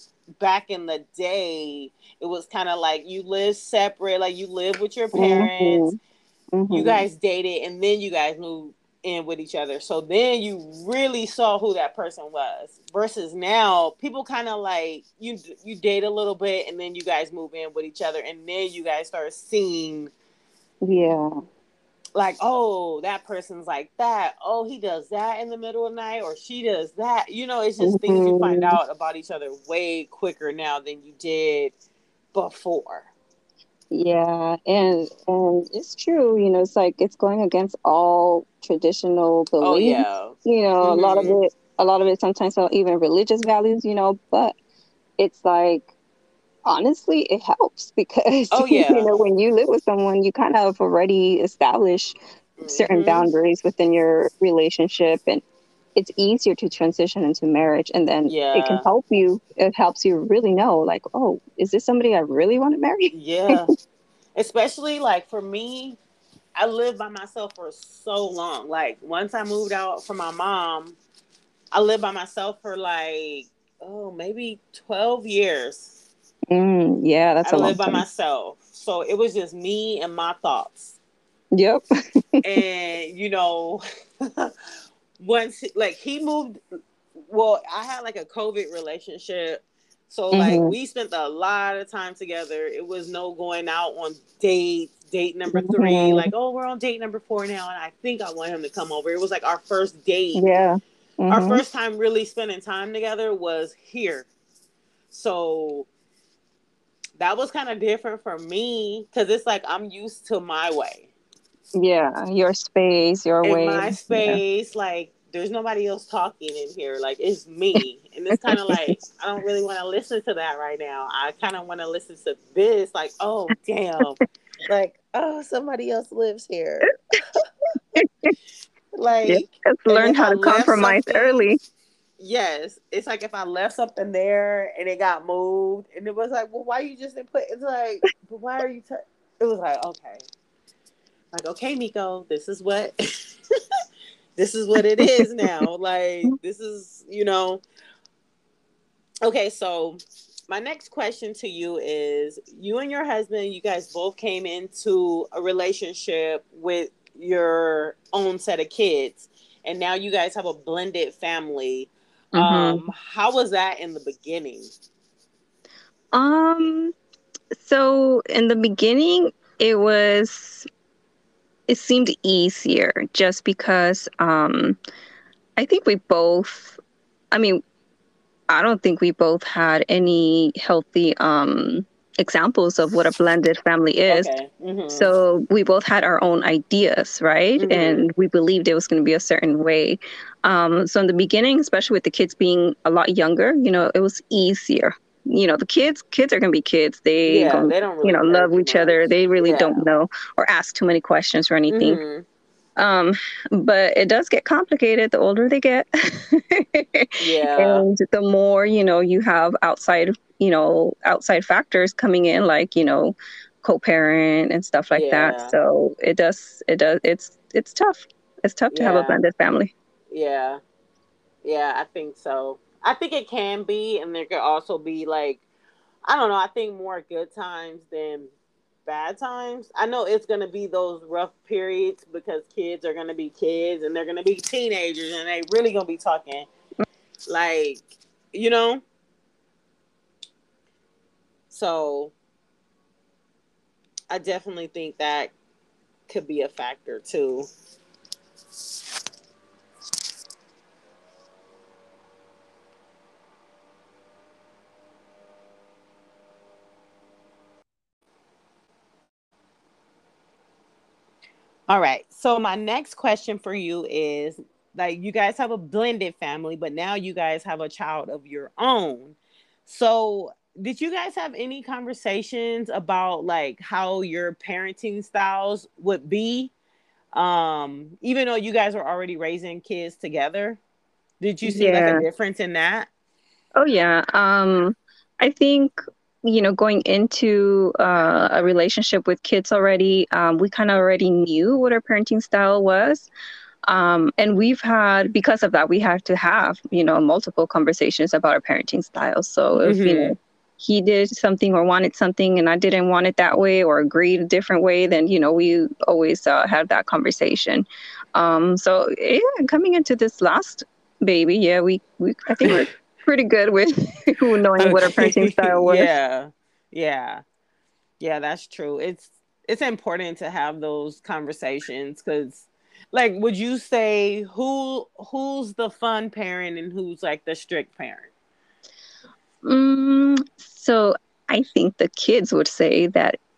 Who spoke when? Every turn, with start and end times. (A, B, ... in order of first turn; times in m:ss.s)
0:00.4-0:05.8 A
0:05.2-0:06.0 B
0:06.5-0:07.0 B
0:06.7-0:20.1 A
0:20.8-0:21.4 B
0:22.1-0:31.7 A
0:27.8-0:28.8 B
0:32.3-0:33.1 A
0:33.9-0:44.5 B
0:39.6-0:41.4 A
0:45.2-0:45.9 B
0:46.6-0:55.4 B
0:48.5-0:49.1 A
0:52.6-0:53.3 A
0:55.9-1:03.6 B
0:58.3-0:58.9 A
1:03.1-1:03.7 A
1:04.3-1:06.0 A
1:06.6-1:11.0 A
1:11.7-1:16.0 A
1:16.5-1:18.0 B
1:17.4-1:21.0 A
1:21.5-1:22.4 B
1:22.4-1:24.5 A
1:25.2-1:26.6 A
1:27.3-1:40.4 A
1:30.3-1:30.7 B
1:35.5-1:36.3 B
1:40.3-1:41.6 B
1:41.3-1:44.3 A
1:45.1-1:45.9 A
1:47.2-1:51.1 A
1:51.8-1:54.4 B
1:53.4-2:07.0 A
1:58.5-1:58.8 B
2:08.0-2:08.3 B
2:08.9-2:11.4 A
2:09.3-2:11.6 B
2:12.2-2:20.2 A
2:21.3-2:22.9 A
2:24.4-2:27.6 A
2:29.2-2:44.7 A
2:42.3-2:42.9 B
2:46.1-2:46.9 B
2:47.5-2:50.7 B
2:51.7-2:54.8 B
2:55.6-2:56.8 B
2:57.3-2:57.6 B
2:58.5-3:04.3 B
3:04.1-3:05.1 A
3:04.9-3:22.0 B
3:07.6-3:08.0 A
3:17.2-3:19.8 A
3:21.7-3:22.2 A
3:22.8-3:39.7 B
3:27.2-3:27.8 A
3:34.9-3:35.6 A
3:38.7-3:39.2 A
3:40.1-3:40.6 A
3:41.4-3:45.4 A
3:46.0-3:48.3 A
3:48.8-3:56.5 A
3:57.3-3:58.8 A
4:01.5-4:02.1 A
4:04.1-4:05.3 A
4:06.1-4:07.5 A
4:21.7-4:36.5 A
4:37.1-4:40.6 A
4:41.2-4:42.9 A
4:41.4-4:42.0 B
4:43.6-4:53.1 B
4:53.7-5:15.9 B
4:59.6-5:00.1 A
5:14.6-5:17.2 A
5:18.0-5:28.1 A
5:29.4-5:33.2 B